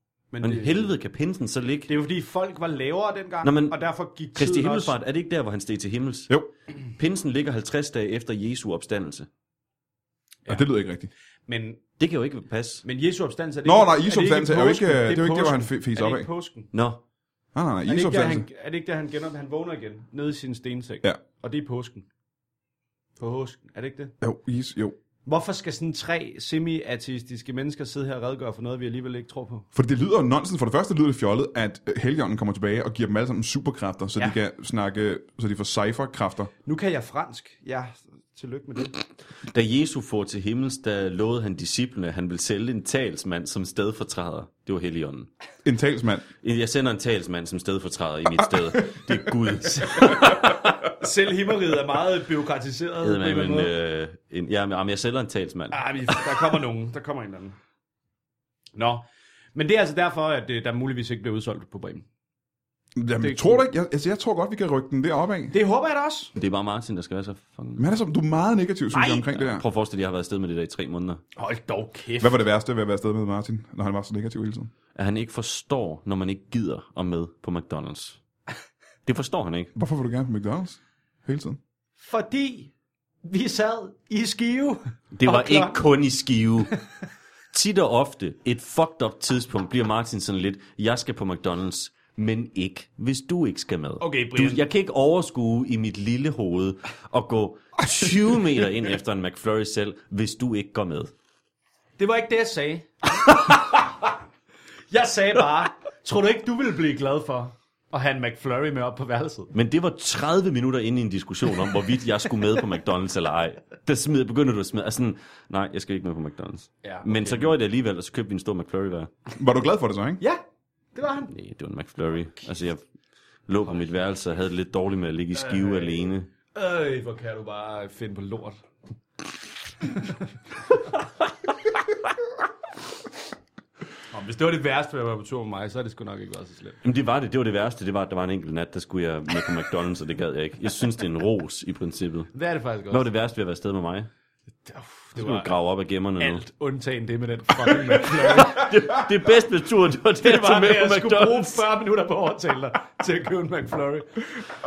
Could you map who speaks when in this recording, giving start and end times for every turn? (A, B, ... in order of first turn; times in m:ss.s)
0:00.3-0:00.9 A
0:00.4-0:01.9 B
0:01.9-0:05.0 A
0:03.4-0:03.8 B
0:04.4-0:06.3 B
0:07.0-0:09.3 B
0:10.5-0:11.1 C
0:11.5-0:11.8 A
0:12.0-0:12.8 B
0:12.8-0:16.7 A
0:13.6-0:16.3 C
0:16.7-0:17.0 B
0:17.6-0:18.5 C
0:17.9-0:22.1 A
0:23.2-0:24.2 A
0:24.2-0:25.0 C
0:25.2-0:29.7 A
0:29.7-0:36.5 C
0:36.6-0:39.0 A
0:39.5-0:45.3 B
0:45.6-0:46.3 C
0:46.4-0:50.7 B
0:49.7-0:53.7 A
0:53.0-0:56.2 B
0:55.7-0:57.6 A
0:58.8-1:02.0 A
1:03.0-1:05.6 C
1:03.2-1:03.7 A
1:05.5-1:06.3 A
1:06.4-1:07.8 B
1:07.8-1:09.6 C
1:08.9-1:09.4 A
1:09.4-1:11.2 B
1:11.4-1:12.4 A
1:12.2-1:14.7 C
1:15.0-1:18.2 B
1:19.1-1:19.7 B
1:19.8-1:21.6 C
1:22.0-1:22.7 A
1:23.2-1:25.8 A
1:25.1-1:26.7 B
1:27.5-1:41.1 B
1:34.0-1:34.6 A
1:42.0-1:44.1 A
1:44.9-1:49.5 A
1:49.5-1:59.1 B
1:56.8-1:57.5 A
1:59.4-2:00.2 C
2:01.0-2:01.3 A
2:01.3-2:02.8 B
2:03.5-2:06.3 B
2:05.3-2:08.6 A
2:09.8-2:10.1 A
2:14.1-2:16.8 A
2:16.8-2:22.3 B
2:22.3-2:23.1 A
2:22.9-2:24.1 B
2:24.6-2:25.5 A
2:25.2-2:26.4 B
2:26.2-2:29.1 A
2:28.0-2:31.6 B
2:30.2-2:34.3 A